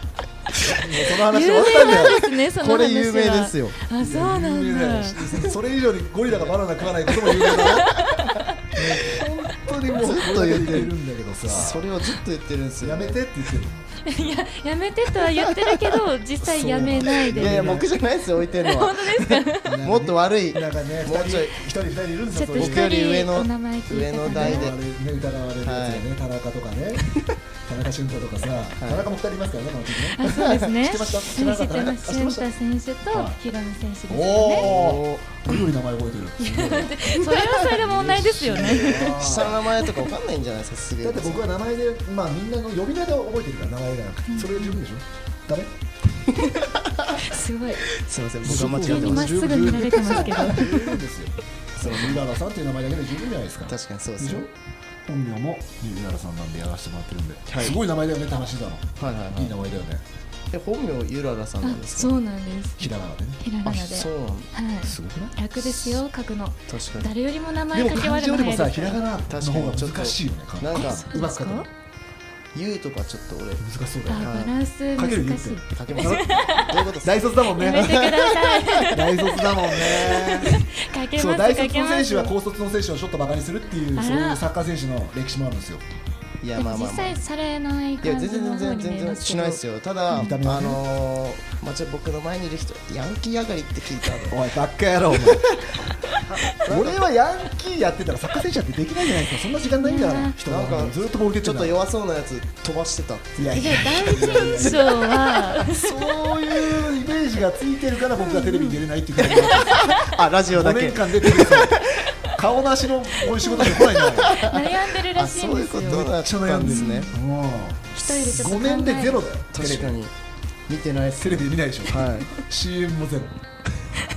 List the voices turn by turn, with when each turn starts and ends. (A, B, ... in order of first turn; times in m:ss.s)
0:00.6-0:02.3 A
0:01.1-0:05.4 B
0:02.6-0:03.8 C
0:04.0-0:08.1 A
0:07.1-0:08.5 C
0:07.6-0:08.2 B
0:08.7-0:11.9 A
0:09.9-0:10.9 C
0:11.4-0:13.2 C
0:12.8-0:14.3 A
0:14.0-0:17.9 B
0:15.2-0:15.9 C
0:16.4-0:17.9 A
0:17.3-0:21.6 C
0:18.5-0:19.8 B
0:19.6-0:23.0 A
0:22.4-0:24.7 B
0:22.6-0:24.7 C
0:24.3-0:32.5 A
0:25.6-0:26.0 C
0:28.8-0:29.1 C
0:30.2-0:34.7 B
0:30.2-0:30.7 C
0:33.1-0:33.4 A
0:34.1-0:39.6 A
0:34.5-0:35.4 C
0:36.4-0:40.1 B
0:38.8-0:41.5 C
0:41.0-0:45.7 A
0:44.3-0:44.8 B
0:46.2-0:49.6 C
0:47.2-0:47.8 B
0:48.4-0:54.5 A
0:48.5-0:51.0 B
0:50.2-0:50.9 C
0:51.8-0:52.2 C
0:53.7-0:54.5 C
0:55.0-1:00.0 A
0:57.5-0:57.8 C
0:59.0-0:59.6 C
1:00.5-1:02.2 C
1:01.6-1:02.9 B
1:02.8-1:03.8 A
1:03.4-1:09.0 B
1:03.7-1:04.5 C
1:04.8-1:06.0 A
1:06.7-1:07.1 C
1:07.7-1:11.7 A
1:09.3-1:11.1 C
1:10.8-1:11.7 B
1:12.6-1:14.5 C
1:13.6-1:14.4 A
1:14.1-1:16.8 B
1:15.0-1:18.1 A
1:15.7-1:18.9 C
1:17.6-1:22.3 B
1:18.9-1:25.8 A
1:24.0-1:24.4 B
1:26.4-1:27.2 C
1:26.6-1:30.4 B
1:28.0-1:34.4 C
1:30.1-1:30.8 A
1:34.3-1:35.6 A
1:35.2-1:37.0 C
1:36.5-1:41.8 A
1:39.7-1:40.4 B
1:40.4-1:46.9 C
1:43.4-1:54.4 A
1:43.5-1:45.9 B
1:48.4-1:48.7 B
1:49.2-1:52.2 C
1:53.5-1:57.1 C
1:53.5-1:57.2 B
1:56.0-2:00.0 A
1:58.0-1:59.2 B
1:59.5-2:00.1 C
2:00.7-2:02.3 C
2:01.2-2:03.4 A